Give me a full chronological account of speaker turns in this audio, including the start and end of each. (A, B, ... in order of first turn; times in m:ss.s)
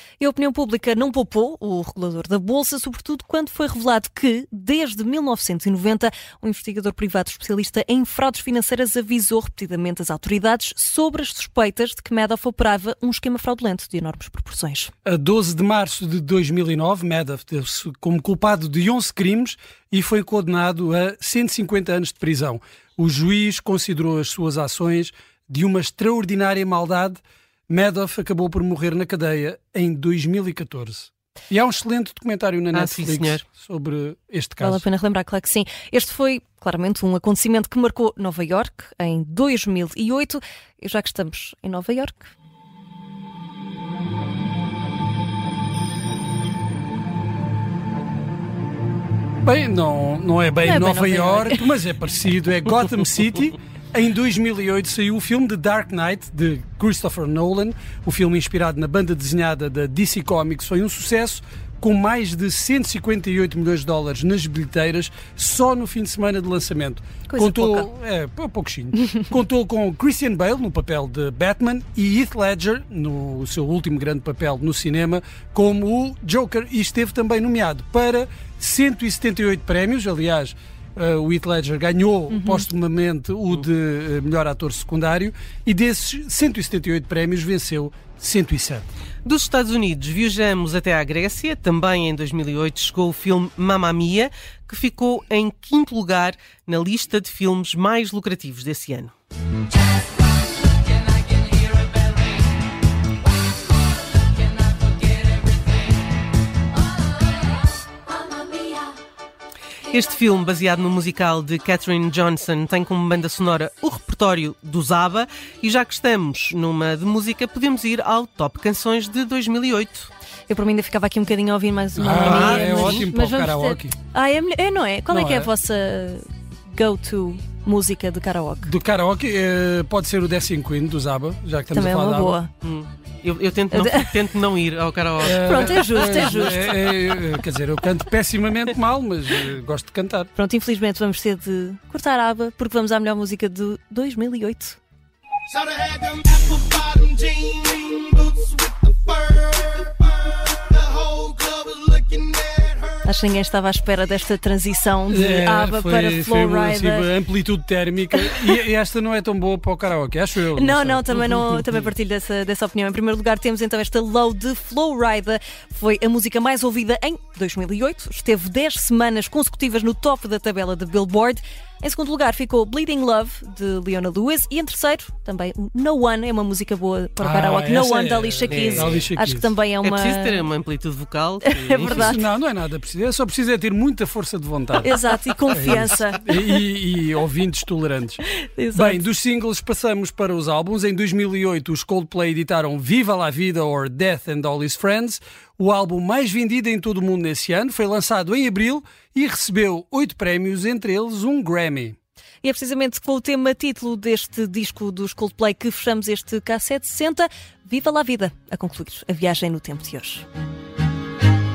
0:00.2-0:14.9 A
0:15.0-0:34.8 B
0:32.7-0:33.4 C
0:34.6-0:42.3 A
0:49.4-1:28.9 B
0:50.6-0:51.6 A
1:07.3-1:07.9 A
1:22.3-1:22.7 A
1:29.2-1:39.1 C
1:49.9-2:00.1 C
2:00.5-2:08.7 A
2:02.0-2:03.9 B
2:02.2-2:03.0 C
2:05.1-2:05.5 B
2:08.6-2:12.4 B
2:11.7-2:12.5 A
2:12.6-2:16.4 C
2:13.7-2:14.1 A
2:15.2-2:20.3 B
2:15.4-2:17.0 A
2:20.4-2:24.8 A
2:25.5-2:33.0 D
2:33.0-2:37.1 A
2:35.1-2:41.9 B
2:38.2-2:38.6 A
2:40.5-3:00.5 A
2:57.2-2:59.5 B
2:58.5-2:59.0 C
2:59.8-3:02.2 C
3:01.5-3:02.2 A
3:01.8-3:04.9 B
3:04.8-3:06.3 A
3:05.5-3:08.2 B
3:08.3-3:09.0 A
3:08.7-3:21.9 B
3:22.4-3:30.2 A